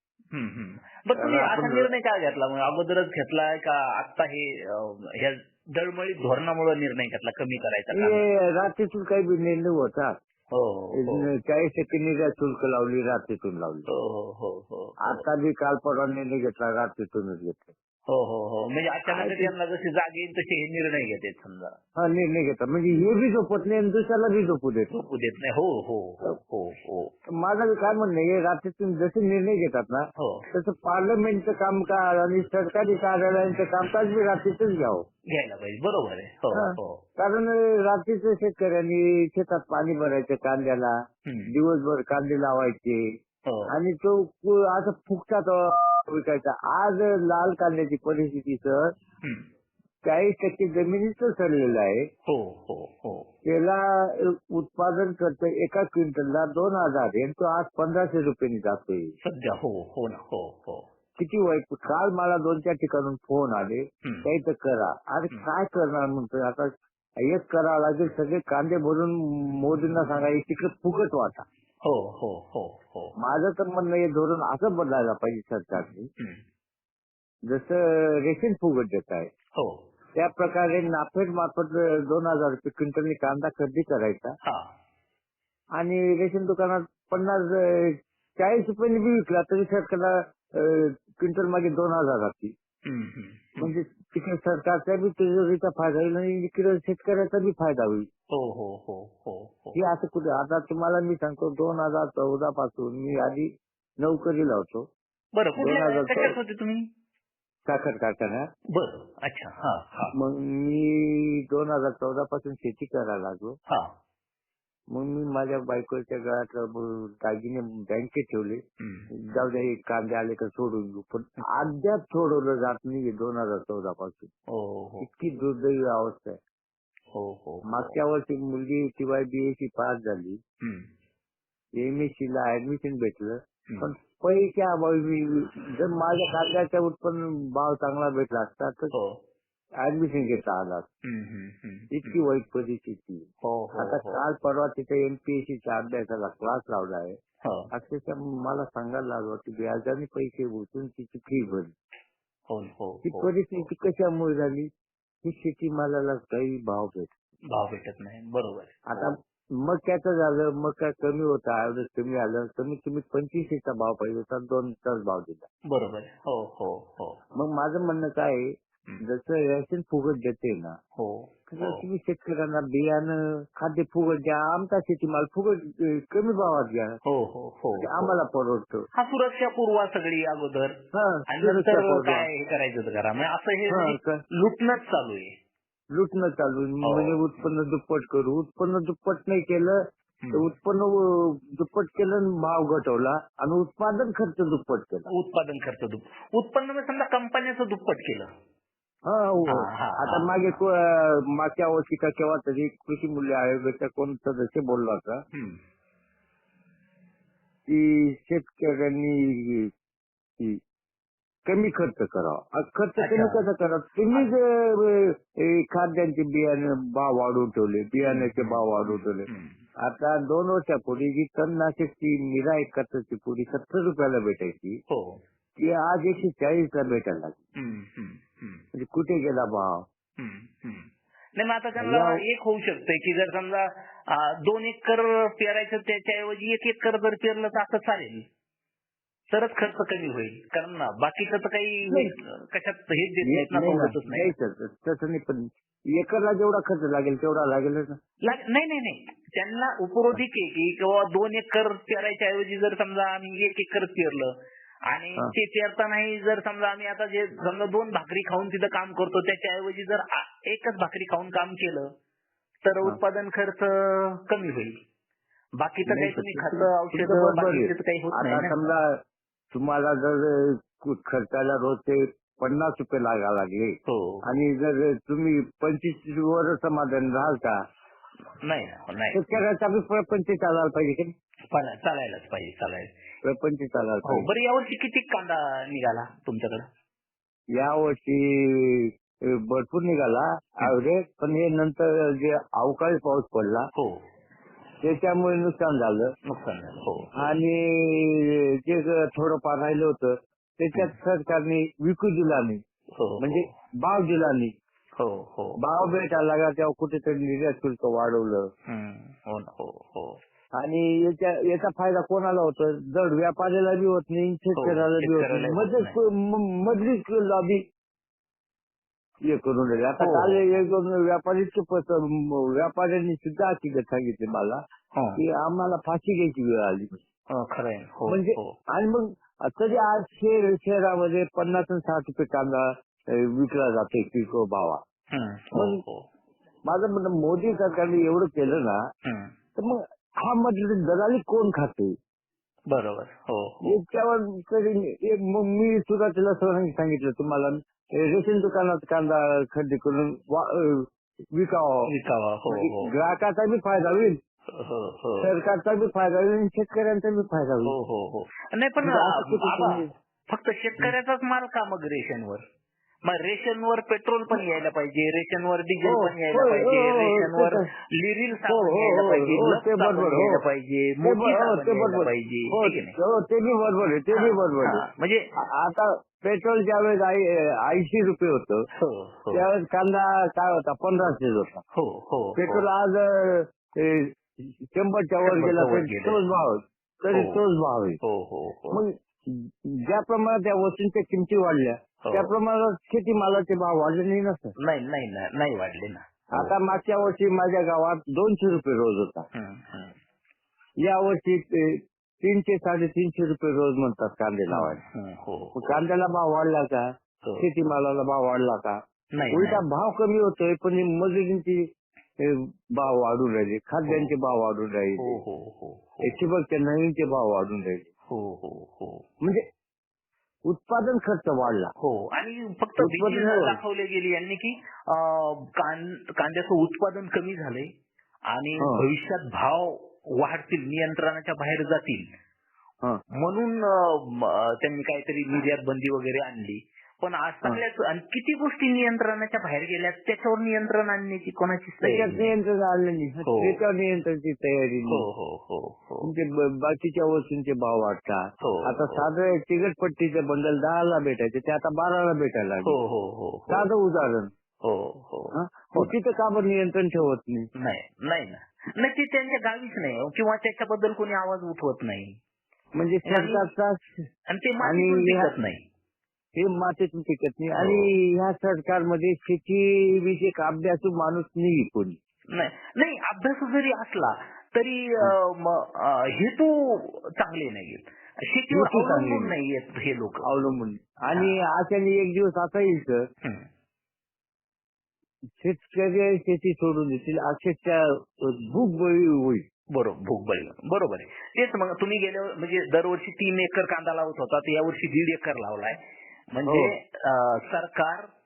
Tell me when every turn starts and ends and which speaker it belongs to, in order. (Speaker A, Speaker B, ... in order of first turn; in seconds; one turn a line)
Speaker A: 0.3-8.2
Speaker B: 1.1-1.9
Speaker B: 7.9-10.2
Speaker A: 10.5-11.3
Speaker B: 10.9-13.9
Speaker A: 13.9-15.2
Speaker B: 15.0-17.7
Speaker A: 18.1-21.8
Speaker B: 19.1-19.5
Speaker B: 22.0-24.9
Speaker A: 24.9-27.1
Speaker B: 27.3-35.0
Speaker A: 30.2-30.5
Speaker A: 35.3-37.0
Speaker B: 36.5-41.0
Speaker A: 41.2-41.5
Speaker B: 41.5-43.1
Speaker A: 43.5-43.7
Speaker B: 43.7-48.9
Speaker B: 50.0-52.1
Speaker A: 52.2-53.3
Speaker B: 53.4-59.1
Speaker A: 59.2-60.9
Speaker B: 61.2-71.4
Speaker A: 71.8-73.1
Speaker B: 73.2-76.1
Speaker A: 75.8-76.4
Speaker B: 77.5-79.3
Speaker A: 79.5-79.8
Speaker B: 80.1-84.3
Speaker B: 85.8-92.5
Speaker A: 92.8-93.7
Speaker B: 93.6-98.1
Speaker A: 98.3-99.8
Speaker B: 99.7-104.9
Speaker A: 105.3-106.9
Speaker B: 105.6-106.3
Speaker B: 107.7-108.5
Speaker A: 108.7-110.1
Speaker B: 110.1-113.5
Speaker A: 113.7-113.9
Speaker B: 114.9-124.3
Speaker A: 118.8-119.1
Speaker A: 124.5-125.1
Speaker B: 125.0-126.4
Speaker A: 127.1-128.0
Speaker B: 127.7-130.4
Speaker A: 130.6-130.9
Speaker B: 131.8-138.9
Speaker A: 138.9-139.2
Speaker B: 139.8-140.8
Speaker A: 141.0-142.2
Speaker B: 141.9-147.2
Speaker A: 143.4-144.2
Speaker A: 147.4-147.7
Speaker B: 147.7-151.7
Speaker A: 152.5-153.6
Speaker B: 153.0-154.7
Speaker B: 155.2-157.1
Speaker A: 157.5-159.1
Speaker B: 158.9-165.5
Speaker A: 165.7-167.2
Speaker B: 167.3-170.8
Speaker A: 171.0-171.8
Speaker B: 171.5-177.0
Speaker A: 177.0-178.2
Speaker B: 177.8-178.8
Speaker A: 178.9-180.7
Speaker B: 180.9-182.3
Speaker A: 181.3-185.3
Speaker B: 183.7-184.2
Speaker B: 185.9-189.8
Speaker A: 186.8-187.5
Speaker B: 190.3-195.1
Speaker A: 195.1-198.3
Speaker B: 199.1-205.2
Speaker A: 199.4-200.6
Speaker A: 205.3-205.6
Speaker B: 207.7-209.7
Speaker B: 211.4-219.3
Speaker A: 213.0-213.4
Speaker A: 218.0-219.6
Speaker B: 219.8-224.8
Speaker A: 224.9-225.2
Speaker B: 225.6-227.3
Speaker A: 227.5-228.6
Speaker B: 228.7-229.8
Speaker A: 230.2-238.2
Speaker B: 231.8-232.2
Speaker A: 239.3-244.3
Speaker B: 243.2-248.0
Speaker A: 248.2-254.3
Speaker A: 254.9-261.9
Speaker A: 262.6-264.7
Speaker A: 265.6-268.5
Speaker B: 265.9-269.0
Speaker B: 269.5-277.6
Speaker A: 273.9-274.2
Speaker A: 278.4-279.2
Speaker B: 279.1-281.1
Speaker A: 281.5-282.9
Speaker B: 283.2-284.3
Speaker A: 284.0-286.6
Speaker B: 287.5-293.7
Speaker A: 293.7-294.0
Speaker B: 294.8-296.1
Speaker A: 296.2-297.3
Speaker B: 297.1-302.6
Speaker A: 302.9-303.5
Speaker B: 303.2-304.5
Speaker A: 305.0-305.9
Speaker B: 305.6-308.5
Speaker A: 308.7-310.2
Speaker B: 310.5-317.6
Speaker A: 314.6-316.0
Speaker B: 319.2-324.6
Speaker A: 320.0-320.4
Speaker A: 324.9-325.2
Speaker B: 325.2-327.0
Speaker A: 327.3-328.6
Speaker B: 328.1-334.8
Speaker A: 335.1-336.1
Speaker B: 335.5-335.8
Speaker B: 336.7-338.8
Speaker A: 339.0-339.3
Speaker B: 339.6-341.9
Speaker A: 342.7-343.8
Speaker B: 343.6-351.9
Speaker A: 351.9-352.9
Speaker B: 352.5-354.2
Speaker A: 354.5-355.3
Speaker B: 355.2-357.7
Speaker A: 357.6-362.4
Speaker B: 358.8-359.9
Speaker A: 363.1-373.0
Speaker B: 365.8-367.7
Speaker B: 368.5-370.4
Speaker B: 371.0-374.8
Speaker A: 374.1-375.3
Speaker B: 375.4-378.6
Speaker A: 378.7-379.4
Speaker B: 379.3-381.6
Speaker A: 381.7-382.6
Speaker B: 382.4-388.0
Speaker A: 385.2-386.2
Speaker A: 387.1-387.4
Speaker A: 388.0-388.8
Speaker B: 388.7-394.5
Speaker A: 392.0-392.3
Speaker A: 394.6-396.5
Speaker B: 396.3-399.3
Speaker A: 399.3-399.9
Speaker B: 400.8-404.8
Speaker A: 404.5-405.8
Speaker B: 405.6-408.8
Speaker A: 409.1-409.6
Speaker B: 409.3-415.2
Speaker A: 413.9-414.1
Speaker A: 415.0-416.2
Speaker B: 416.0-417.9
Speaker A: 418.1-419.1
Speaker B: 420.5-421.7
Speaker A: 421.8-427.7
Speaker B: 422.8-423.6
Speaker A: 428.3-432.1
Speaker A: 433.2-442.3
Speaker B: 441.8-445.1
Speaker A: 443.2-443.6
Speaker A: 444.9-446.1
Speaker B: 446.0-452.8
Speaker A: 448.4-449.1
Speaker A: 452.6-453.7
Speaker B: 453.5-454.3
Speaker A: 454.6-455.9
Speaker B: 455.3-457.5
Speaker A: 457.5-462.2
Speaker B: 462.8-464.1
Speaker A: 463.0-463.4
Speaker A: 464.3-465.6
Speaker B: 464.6-465.3
Speaker B: 466.4-472.0
Speaker A: 467.6-467.9
Speaker A: 472.3-480.3
Speaker B: 478.5-479.3
Speaker B: 480.2-483.1
Speaker B: 485.4-489.4
Speaker A: 489.7-495.8
Speaker A: 496.3-498.1
Speaker B: 496.5-496.7